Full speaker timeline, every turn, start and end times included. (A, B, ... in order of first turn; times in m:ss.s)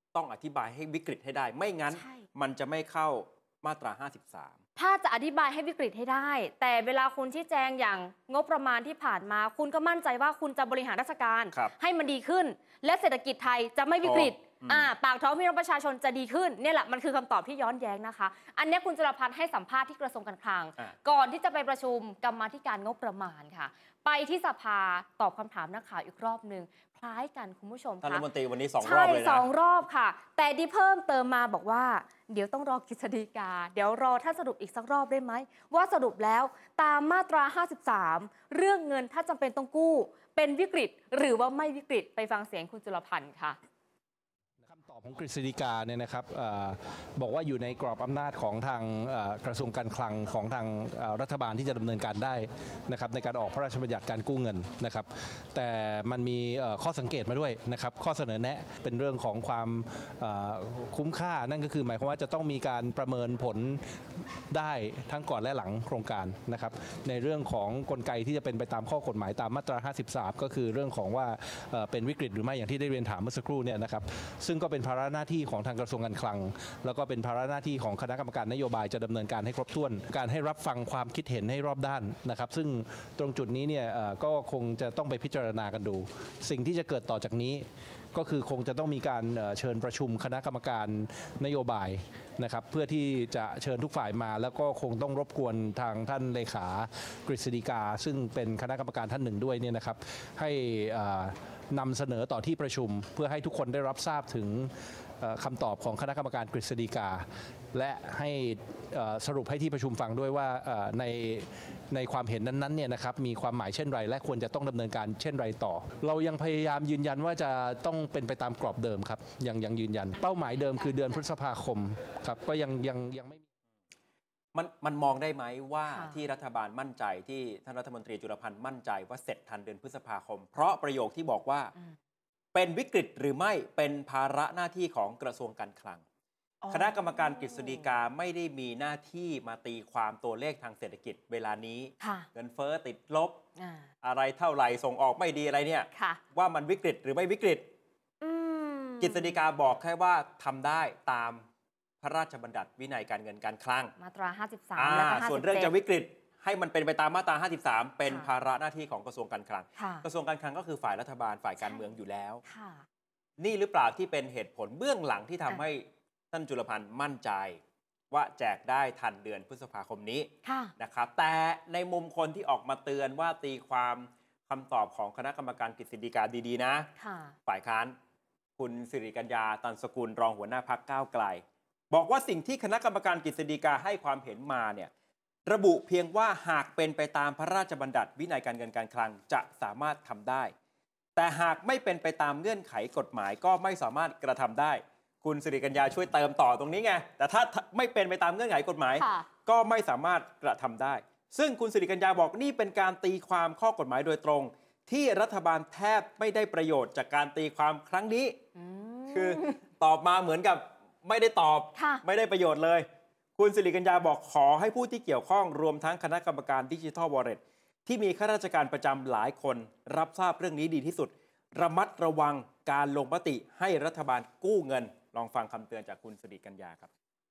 0:00.1-0:04.6 A
0:01.9-0:02.2 B
0:04.8-0:28.2 B
0:14.0-0:14.9 A
0:28.0-0:29.5 A
0:28.8-0:43.6 B
0:44.6-1:04.0 C
1:04.5-2:03.4 C
2:04.5-2:11.7 A
2:05.9-2:06.2 B
2:12.5-2:16.0 A
2:16.6-2:17.9 B
2:16.7-2:23.4 A
2:22.0-2:22.3 B
2:23.6-2:23.9 B
2:24.0-2:27.7 A
2:25.9-2:26.2 B
2:28.2-2:29.4 B
2:29.0-2:31.4 A
2:32.0-2:33.9 A
2:34.0-2:35.7 B
2:34.8-2:42.4 A
2:39.8-2:40.0 B
2:41.6-2:41.8 B
2:42.4-2:42.8 B
2:43.4-2:47.6 A
2:48.1-2:56.9 A
2:50.4-2:50.7 B
2:57.0-2:57.3 B
2:57.4-2:57.9 A
2:58.6-3:04.9 A
3:05.4-3:10.5 A
3:11.2-3:28.4 A
3:19.0-3:19.3 B
3:28.6-3:29.6 B
3:29.1-3:46.9 A
3:31.8-3:32.0 B